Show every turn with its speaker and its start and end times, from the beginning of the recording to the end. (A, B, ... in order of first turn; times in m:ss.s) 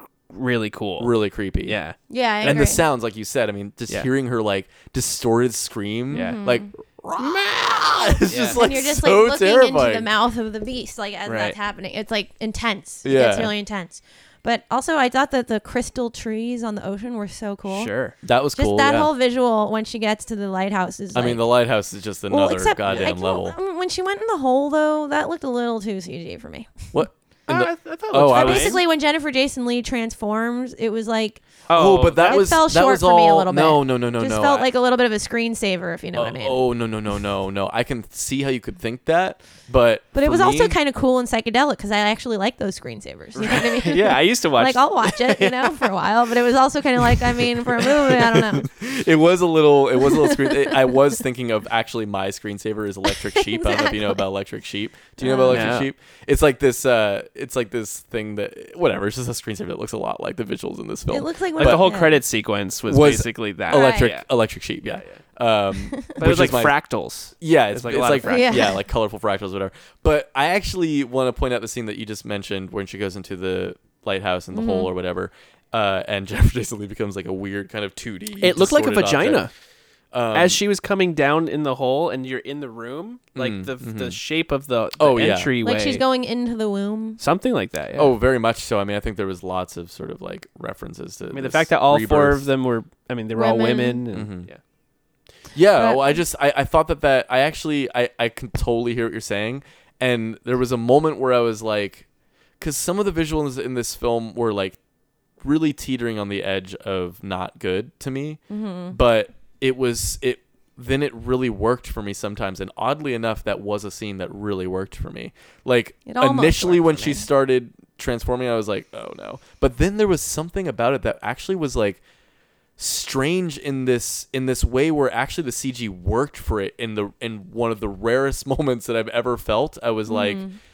0:00.3-0:02.6 A
0:01.0-0:01.8 B
0:02.1-0:02.8 C
0:02.4-0:10.1 B
0:06.1-0:06.7 C
0:06.1-0:06.4 A
0:08.0-0:17.9 C
0:08.3-0:08.6 A
0:11.2-0:11.6 A
0:13.0-0:13.5 B
0:17.7-0:18.2 A
0:18.2-0:19.1 B
0:18.6-0:21.5 C
0:21.1-0:23.6 B
0:22.3-0:26.9 C
0:26.9-0:28.8 B
0:27.5-0:28.8 A
0:28.3-0:31.4 C
0:31.7-0:32.5 A
0:31.7-0:34.7 B
0:32.2-0:36.6 C
0:36.1-0:40.8 B
0:40.1-0:48.7 C
0:43.4-0:45.9 A
0:47.8-1:01.9 B
0:50.0-0:50.9 C
0:53.1-0:54.2 C
0:55.2-0:55.7 C
0:55.5-0:55.9 A
1:01.1-1:02.2 C
1:01.6-1:04.2 A
1:02.9-1:06.7 B
1:03.7-1:04.1 C
1:04.8-1:05.2 A
1:05.9-1:06.2 C
1:06.2-1:08.7 A
1:07.4-1:19.5 B
1:08.2-1:08.8 C
1:14.5-1:14.9 C
1:18.4-1:19.5 A
1:20.1-1:20.6 B
1:20.3-1:26.0 A
1:23.4-1:24.2 B
1:25.0-1:25.5 B
1:25.6-1:27.2 C
1:27.2-1:28.1 A
1:28.0-1:32.5 B
1:31.3-1:34.6 A
1:33.3-1:34.0 C
1:34.1-1:34.5 B
1:35.5-1:42.0 B
1:35.8-1:36.2 C
1:42.6-1:44.8 B
1:45.4-2:02.0 B
1:48.5-1:49.0 C
1:56.0-1:57.3 C
2:02.8-2:10.4 B
2:10.0-2:10.6 C